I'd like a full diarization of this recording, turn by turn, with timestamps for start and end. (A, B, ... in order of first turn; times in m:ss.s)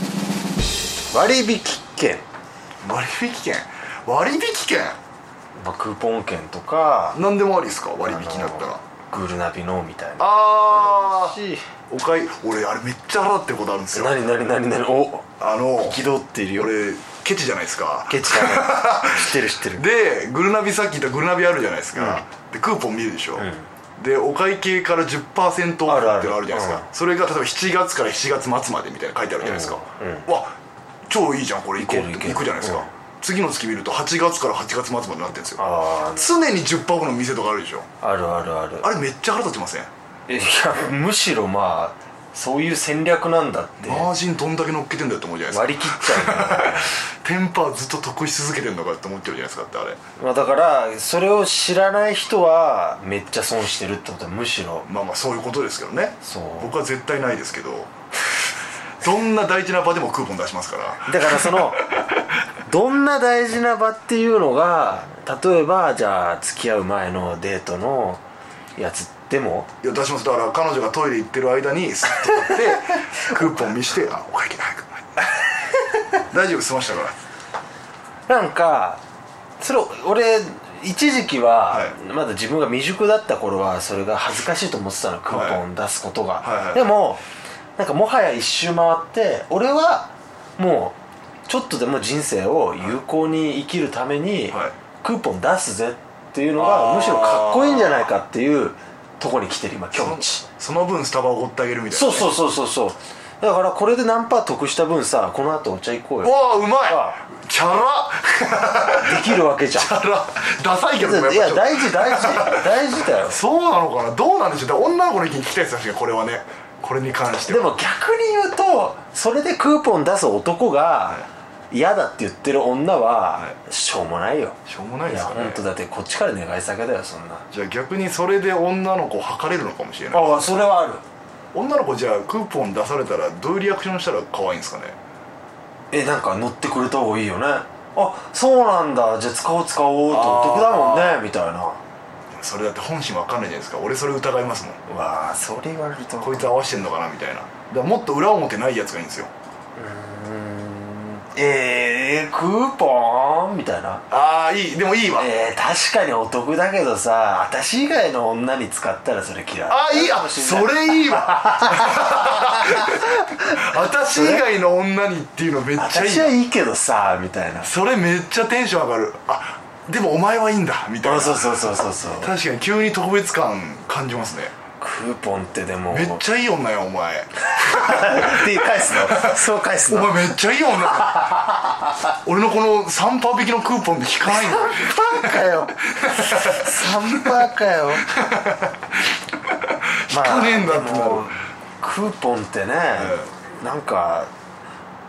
0:01.1-0:02.2 A
0:02.8-0:05.0 B
0:05.6-0:07.2 A
0:07.1-0:08.8 B
0:08.0-0:11.6 A
0:10.2-0:11.4 B
0:11.9-0:14.1 B
0:13.9-0:15.3 A
0:15.4-0:16.0 B
0:15.8-0:16.7 A
0:16.6-0:30.5 B
0:18.1-0:19.8 A
0:22.0-0:22.2 A
0:23.4-0:23.7 A
0:25.9-0:26.9 A
0:29.4-0:30.2 A
0:31.1-0:35.6 B
0:31.8-0:32.9 A
0:35.6-0:36.3 A
0:36.1-0:37.9 B
0:38.0-0:38.9 A
0:38.8-0:39.9 B
0:40.3-0:44.1 A
0:43.8-0:50.0 B
0:45.5-0:47.0 A
0:50.2-0:54.9 A
0:54.8-0:57.9 B
0:56.2-0:56.7 A
0:59.0-1:01.8 B
1:01.1-1:01.8 A
1:02.6-1:08.2 A
1:08.8-1:09.7 A
1:09.8-1:15.3 B
1:16.2-1:17.2 B
1:18.3-1:19.0 A
1:19.6-1:27.2 A
1:21.7-1:21.9 B
1:25.3-1:25.6 B
1:26.4-1:26.9 B
1:27.8-1:31.0 A
1:31.5-1:40.4 A
1:36.6-1:38.1 B
1:39.9-1:42.3 B
1:41.9-1:47.2 A
1:46.2-1:57.7 B
1:49.0-1:49.9 A
1:51.0-1:53.4 A
1:57.5-2:04.6 A
2:04.6-2:05.6 B
2:05.1-2:07.4 A
2:07.5-2:10.5 B
2:10.1-2:11.0 A
2:11.5-2:15.0 B
2:15.9-2:21.8 A
2:20.1-2:21.2 B
2:22.3-2:24.8 B
2:24.9-2:26.5 A
2:26.2-2:29.3 B
2:29.8-2:34.0 A
2:34.1-2:35.3 B
2:35.2-2:44.4 A
2:39.7-2:46.4 B
2:45.8-2:47.7 A
2:47.6-2:51.6 B
2:51.0-2:52.3 A
2:52.2-2:54.5 B
2:54.8-2:56.2 A
2:55.9-3:01.4 B
2:57.6-3:00.2 A
3:01.0-3:01.9 A
3:02.2-3:07.5 B
3:04.3-3:08.1 A
3:08.0-3:09.0 B
3:09.5-3:11.3 B
3:10.1-3:14.3 A
3:13.0-3:13.3 B